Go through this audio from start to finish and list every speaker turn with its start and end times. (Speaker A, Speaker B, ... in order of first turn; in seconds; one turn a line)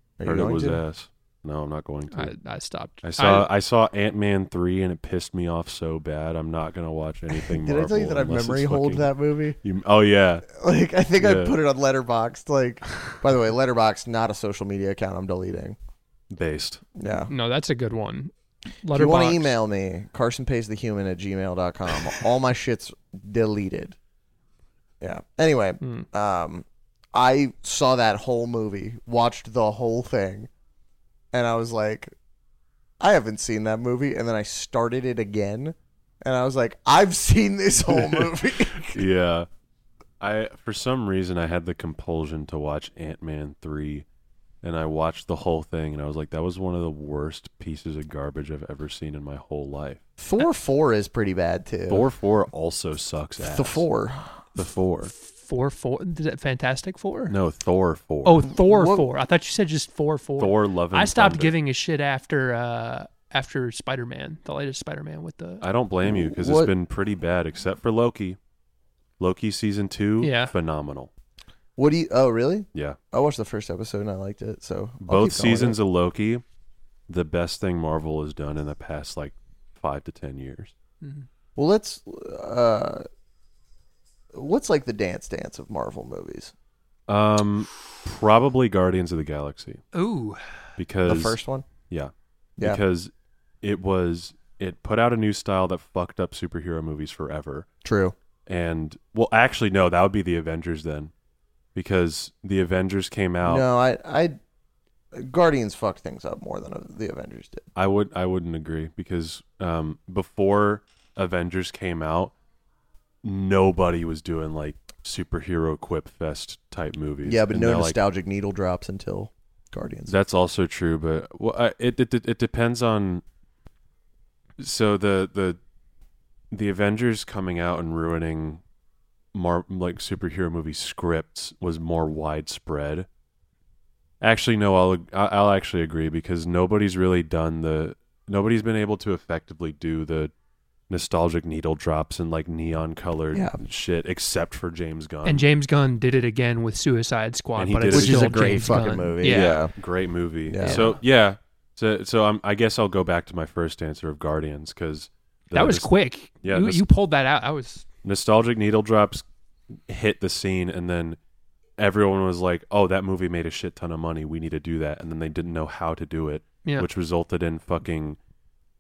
Speaker A: 0.2-0.8
Speaker B: 0.2-2.3
Speaker C: 2.1-3.5
Speaker B: 3.0-9.1
Speaker A: 7.3-9.6
Speaker B: 9.6-10.5
Speaker A: 10.5-15.8
Speaker B: 11.2-11.6
Speaker B: 16.3-16.8
Speaker A: 17.0-17.3
Speaker C: 17.3-19.6
Speaker A: 18.9-24.0
Speaker A: 25.0-30.5
Speaker A: 31.3-32.1
Speaker A: 33.0-39.0
Speaker B: 37.9-38.3
Speaker B: 38.9-39.5
Speaker B: 40.2-44.1
Speaker B: 44.6-50.0
Speaker A: 50.2-52.1
Speaker B: 51.9-53.9
Speaker A: 53.4-54.5
Speaker B: 54.5-55.1
Speaker C: 55.1-57.4
Speaker B: 57.3-58.5
Speaker C: 58.2-65.6
Speaker A: 58.5-59.1
Speaker B: 60.4-61.5
Speaker B: 65.6-68.4
Speaker A: 66.0-66.7
Speaker B: 69.2-71.1
Speaker C: 70.2-70.5
Speaker A: 71.8-75.8
Speaker B: 75.0-76.4
Speaker B: 77.1-80.7
Speaker C: 81.0-81.3
Speaker A: 81.6-83.1
Speaker A: 84.3-86.5
Speaker B: 87.1-89.8
Speaker C: 89.9-90.4
Speaker B: 90.8-91.4
Speaker A: 91.0-91.7
Speaker B: 91.9-93.1
Speaker B: 93.6-97.7
Speaker A: 97.8-98.2
Speaker B: 98.5-101.1
Speaker B: 101.8-103.7
Speaker A: 103.4-104.4
Speaker A: 105.1-107.7
Speaker B: 107.8-112.3
Speaker B: 113.2-118.0
Speaker A: 117.2-120.2
Speaker B: 120.1-123.2
Speaker B: 124.6-125.6
Speaker B: 126.5-128.6
Speaker B: 129.3-133.1
Speaker B: 134.2-140.3
Speaker B: 140.9-145.5
Speaker A: 143.3-143.6
Speaker C: 145.2-149.6
Speaker B: 147.6-148.7
Speaker A: 147.9-149.7
Speaker B: 149.2-155.9
Speaker A: 150.5-150.9
Speaker C: 150.6-150.9
Speaker C: 155.5-157.8
Speaker B: 156.4-156.8
Speaker B: 158.0-161.2
Speaker B: 161.8-168.2